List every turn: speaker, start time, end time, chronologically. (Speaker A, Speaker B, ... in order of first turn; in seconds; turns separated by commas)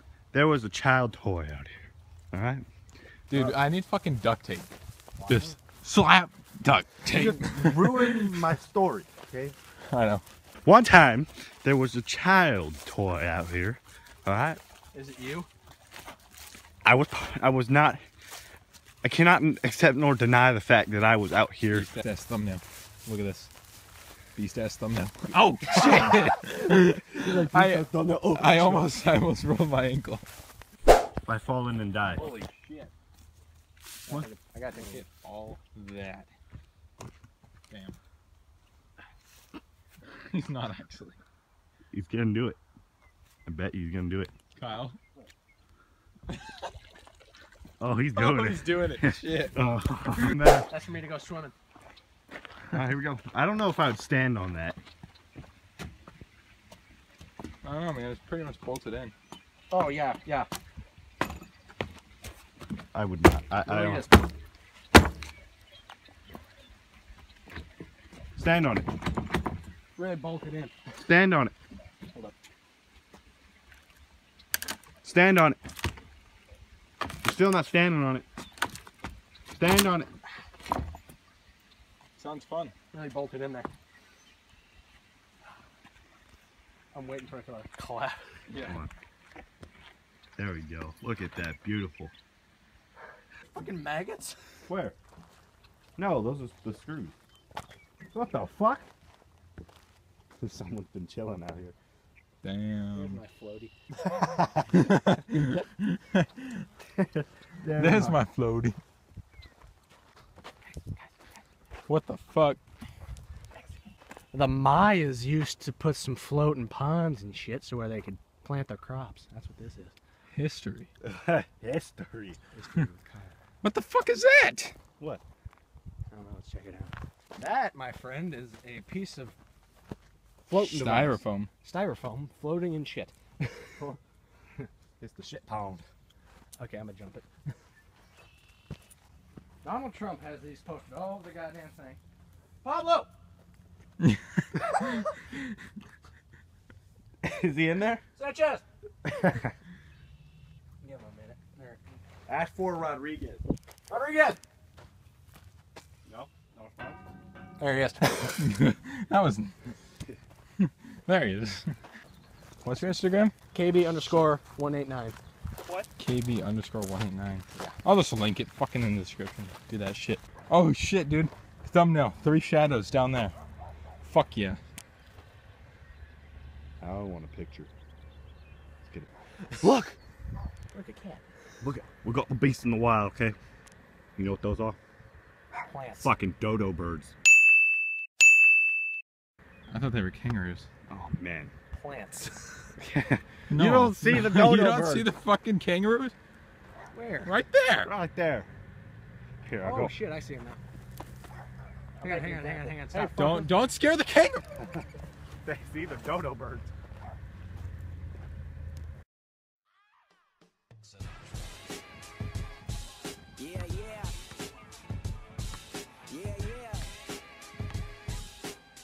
Speaker A: 0.3-1.7, Speaker A: 2.3-2.6, Speaker B: 3.3-4.7, Speaker B: 5.3-8.4, Speaker C: 7.2-7.9, Speaker A: 7.2-9.0, Speaker C: 8.6-9.5, Speaker B: 9.9-10.2, Speaker A: 10.6-14.6, Speaker D: 14.9-15.5, Speaker A: 16.9-18.0, Speaker A: 19.0-21.8, Speaker B: 21.6-23.5, Speaker B: 24.4-30.2, Speaker A: 27.2-28.5, Speaker A: 31.3-32.2, Speaker B: 32.1-32.9, Speaker D: 34.1-35.0, Speaker B: 34.7-36.3, Speaker B: 37.7-38.0, Speaker B: 40.1-41.2, Speaker A: 41.9-42.6, Speaker A: 43.5-44.3, Speaker B: 44.6-45.0, Speaker A: 47.8-48.6, Speaker B: 48.1-50.3, Speaker A: 49.6-50.7, Speaker D: 50.7-51.5, Speaker A: 52.7-54.8, Speaker B: 57.6-59.1, Speaker D: 59.7-60.5, Speaker A: 62.9-64.1, Speaker D: 63.6-64.3, Speaker A: 68.4-68.9, Speaker D: 70.0-70.7, Speaker A: 71.1-71.5, Speaker A: 75.0-75.6, Speaker A: 77.2-78.3, Speaker A: 79.6-80.1, Speaker B: 82.2-82.7, Speaker D: 82.9-83.7, Speaker D: 86.9-88.2, Speaker B: 88.5-88.9, Speaker A: 90.4-92.1, Speaker D: 93.5-94.4, Speaker A: 94.7-95.0, Speaker A: 96.0-97.1, Speaker A: 98.2-98.9, Speaker A: 100.4-101.8, Speaker B: 102.4-103.2, Speaker D: 102.9-103.7, Speaker B: 104.7-106.7, Speaker A: 107.6-108.0, Speaker B: 107.7-108.8, Speaker B: 111.9-112.6, Speaker D: 114.3-119.9, Speaker B: 120.3-120.9, Speaker A: 121.0-122.5, Speaker B: 123.6-124.8, Speaker D: 126.1-129.3, Speaker D: 130.5-133.8, Speaker B: 130.6-131.5, Speaker A: 135.0-135.8, Speaker D: 136.6-137.3, Speaker D: 139.6-142.0, Speaker D: 142.6-143.1, Speaker B: 144.0-144.5, Speaker A: 147.2-148.0, Speaker D: 148.2-148.6, Speaker D: 150.8-152.0, Speaker A: 152.3-153.4, Speaker D: 153.9-154.4, Speaker A: 156.1-156.4, Speaker D: 156.5-157.0, Speaker D: 157.6-158.4, Speaker B: 158.4-159.6, Speaker B: 160.6-161.7, Speaker B: 162.6-163.3, Speaker D: 163.5-165.2, Speaker B: 166.0-173.4, Speaker B: 174.0-174.6, Speaker A: 176.8-177.7, Speaker A: 179.6-179.9, Speaker D: 180.7-181.2, Speaker A: 181.6-183.4, Speaker A: 184.2-184.8, Speaker D: 185.6-186.2, Speaker A: 186.0-187.1, Speaker B: 189.7-190.7, Speaker A: 190.9-191.5, Speaker D: 191.7-192.6, Speaker A: 192.8-195.0, Speaker B: 193.5-196.2, Speaker C: 193.5-194.0, Speaker C: 194.7-195.1, Speaker D: 196.9-197.3, Speaker B: 197.2-197.9, Speaker A: 197.8-198.5, Speaker A: 199.4-199.9, Speaker D: 199.6-200.6, Speaker D: 202.0-203.5, Speaker B: 202.9-204.7, Speaker A: 205.4-206.7, Speaker C: 213.4-214.2, Speaker C: 216.1-216.9